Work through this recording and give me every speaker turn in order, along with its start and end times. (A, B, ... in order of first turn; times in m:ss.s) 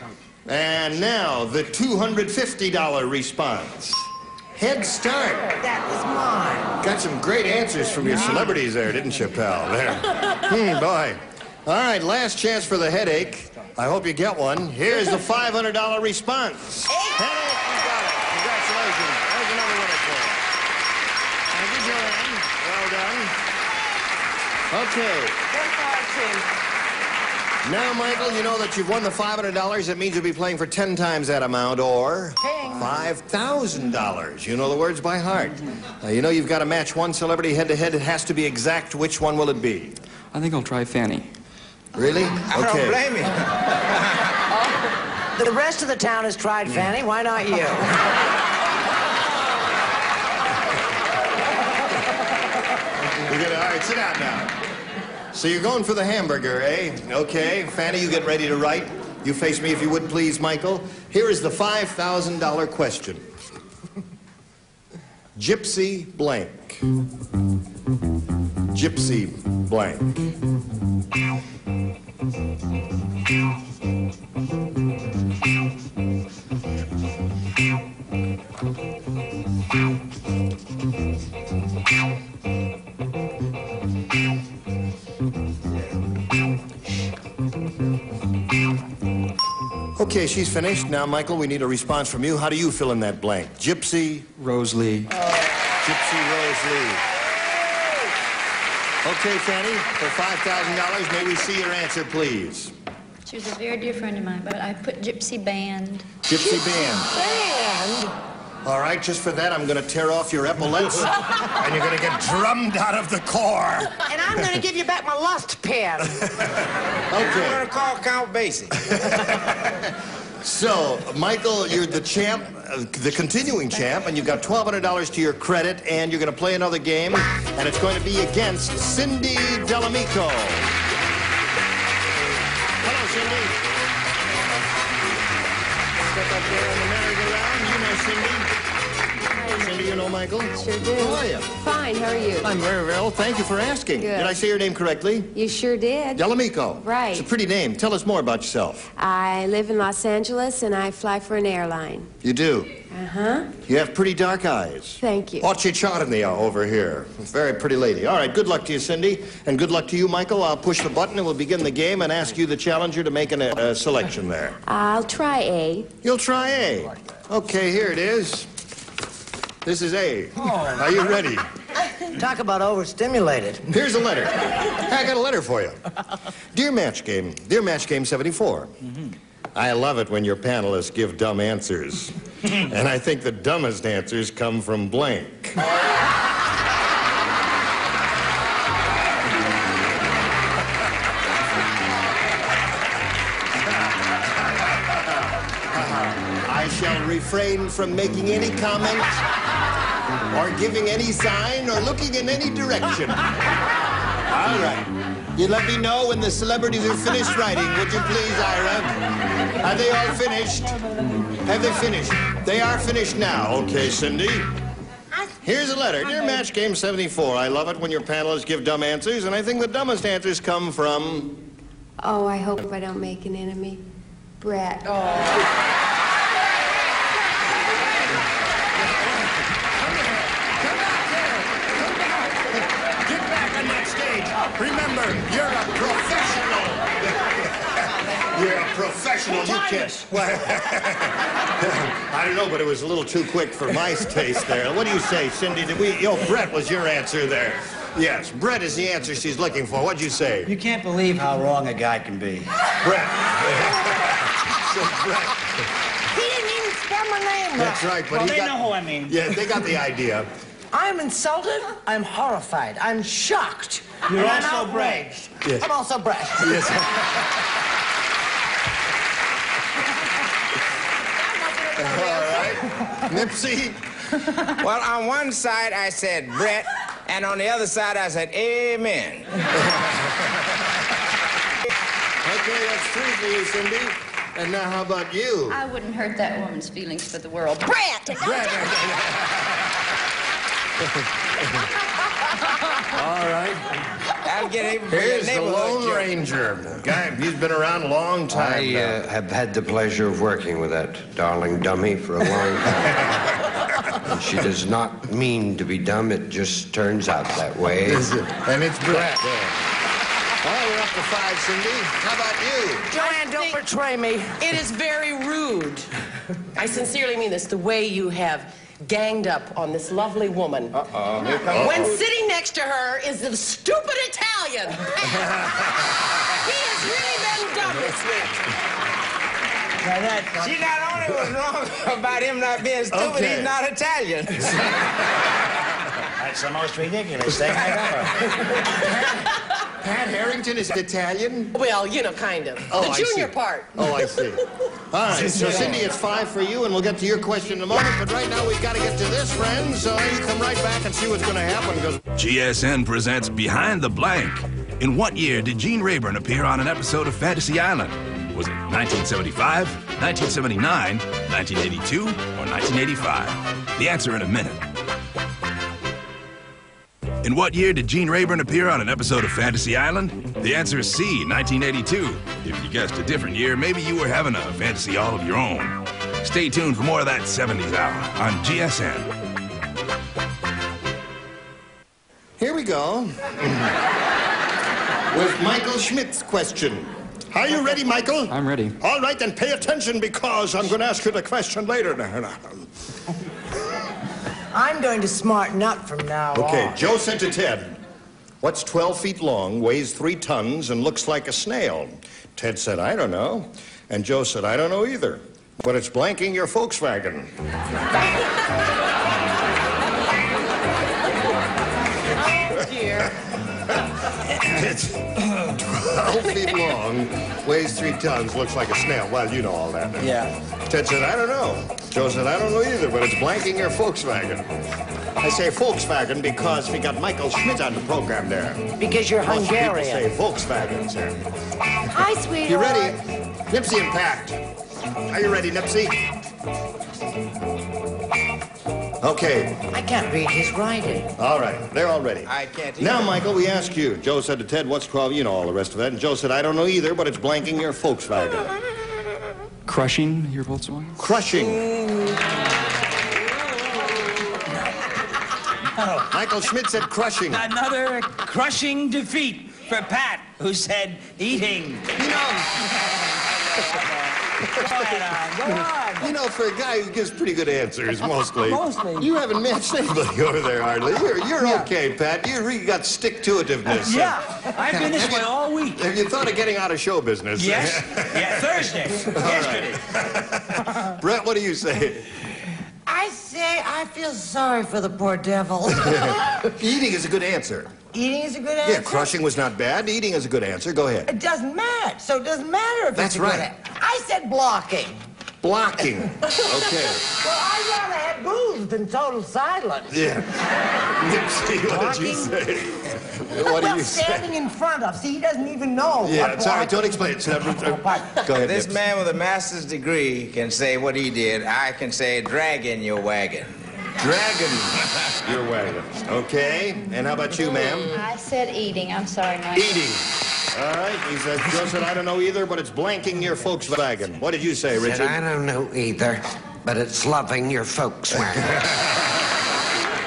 0:00.4-0:05.5 A
0:05.5-0:06.8 B
0:06.8-0:20.4 A
0:21.5-0:23.3 A
0:24.7-0:25.4 A
0:25.6-0:26.4 B
0:25.6-0:26.4 C
0:27.6-0:40.0 A
0:32.4-0:32.9 B
0:40.3-0:41.3 D
0:41.9-0:43.0 A
0:42.5-0:44.2 E
0:45.4-0:48.0 B
0:53.2-0:54.6 A
0:55.3-1:03.2 A
1:05.4-1:06.8 A
1:08.7-1:10.2 A
1:30.0-1:34.3 A
1:34.4-1:35.1 D
1:35.8-1:37.1 A
1:39.0-1:42.7 A
1:43.2-1:46.1 F
1:46.2-1:47.1 A
1:46.3-1:48.2 B
1:48.6-1:53.9 A
1:54.1-1:56.2 B
1:57.1-1:57.6 A
1:57.3-1:58.7 E
1:58.9-1:59.5 A
2:00.4-2:10.7 A
2:12.8-2:13.6 A
2:16.0-2:18.5 A
2:19.3-2:19.8 G
2:19.6-2:21.5 A
2:20.5-2:22.6 G
2:22.4-2:25.3 A
2:24.0-2:24.4 G
2:25.3-2:26.3 G
2:26.1-2:28.9 A
2:26.8-2:27.3 G
2:29.0-2:32.1 G
2:32.2-2:32.8 A
2:32.9-2:33.5 G
2:33.6-2:44.6 A
2:35.0-2:35.5 G
2:44.6-2:45.9 G
2:46.0-2:48.5 A
2:49.6-2:51.5 A
2:52.1-2:53.7 B
2:53.7-2:55.8 A
2:56.5-2:58.8 A
2:59.6-3:05.6 A
3:15.6-3:19.2 A
3:20.3-3:23.3 A
3:24.3-3:29.0 A
3:29.6-3:30.8 A
3:31.4-3:34.5 A
3:35.4-3:41.4 A
3:42.0-3:43.8 G
3:44.4-3:44.9 G
3:44.9-3:45.4 C
3:49.8-4:10.5 A
4:10.4-4:12.5 H
4:12.8-4:15.7 A
4:16.1-4:17.9 B
4:17.6-4:20.3 A
4:18.1-4:19.2 H
4:20.7-4:26.8 B
4:24.1-4:25.1 H
4:26.4-4:27.2 A
4:31.3-4:33.0 B
4:31.8-4:34.2 A
4:34.6-4:39.3 E
4:39.6-4:40.3 A
4:42.2-4:45.6 A
4:45.5-4:48.4 F
4:48.2-4:49.8 A
4:51.4-4:51.7 A
4:52.8-4:53.6 A
4:54.2-4:56.1 E
4:54.9-4:59.0 A
4:58.3-5:02.9 I
5:04.0-5:08.1 I
5:07.8-5:09.5 A
5:10.4-5:12.9 A
5:12.9-5:14.5 B
5:12.9-5:13.6 C
5:14.4-5:15.9 C
5:16.6-5:20.7 C
5:20.7-5:22.0 E
5:21.4-5:21.9 A
5:21.6-5:25.2 C
5:25.2-5:25.7 A
5:26.4-5:28.4 C
5:29.9-5:30.6 H
5:30.4-5:34.6 E
5:32.9-5:33.5 A
5:34.4-5:35.2 A
5:36.2-5:38.2 H
5:38.8-5:39.2 A
5:39.8-5:41.6 A
5:41.5-5:44.3 C
5:42.7-5:52.0 A
5:45.1-5:45.8 H
5:52.2-6:04.6 J
6:07.2-6:19.1 J
6:22.4-6:23.7 A
6:25.1-6:32.7 A
6:28.3-6:28.8 D
6:34.5-6:36.9 B
6:36.3-6:37.8 A
6:38.4-6:47.3 A
6:52.5-6:52.8 C
6:53.7-7:04.5 A
7:00.0-7:00.3 H
7:05.2-7:08.7 A
7:08.8-7:10.1 B
7:09.2-7:11.2 A
7:11.9-7:13.0 G
7:12.1-7:12.5 B
7:12.4-7:14.4 A
7:15.1-7:16.0 A
7:19.0-7:19.6 A
7:19.7-7:21.1 B
7:21.2-7:28.5 A
7:22.2-7:23.2 E
7:29.7-7:31.0 D
7:31.0-7:31.7 A
7:31.4-7:32.2 C
7:35.8-7:36.1 H
7:36.1-7:37.5 A
7:37.3-7:41.9 H
7:41.9-7:42.9 A
7:44.4-7:44.9 A
7:44.5-7:46.1 B
7:44.7-7:45.6 H
7:46.0-8:02.1 A
7:48.4-7:49.0 B
7:51.4-7:51.7 B
7:53.8-7:55.8 H
7:53.9-7:54.2 B
7:57.4-7:59.8 H
8:02.8-8:06.3 B
8:05.8-8:07.8 A
8:07.9-8:09.1 B
8:08.6-8:11.1 A
8:11.1-8:15.0 B
8:12.9-8:13.5 A
8:15.4-8:17.1 A
8:17.1-8:20.0 B
8:19.9-8:24.3 A
8:21.6-8:22.4 B
8:23.3-8:28.2 B
8:26.0-8:28.8 A
8:28.4-8:33.5 E
8:34.0-8:37.9 A
8:37.4-8:38.0 C
8:37.9-8:39.9 F
8:39.5-8:45.2 A
8:44.7-8:48.6 I
8:48.3-8:49.1 A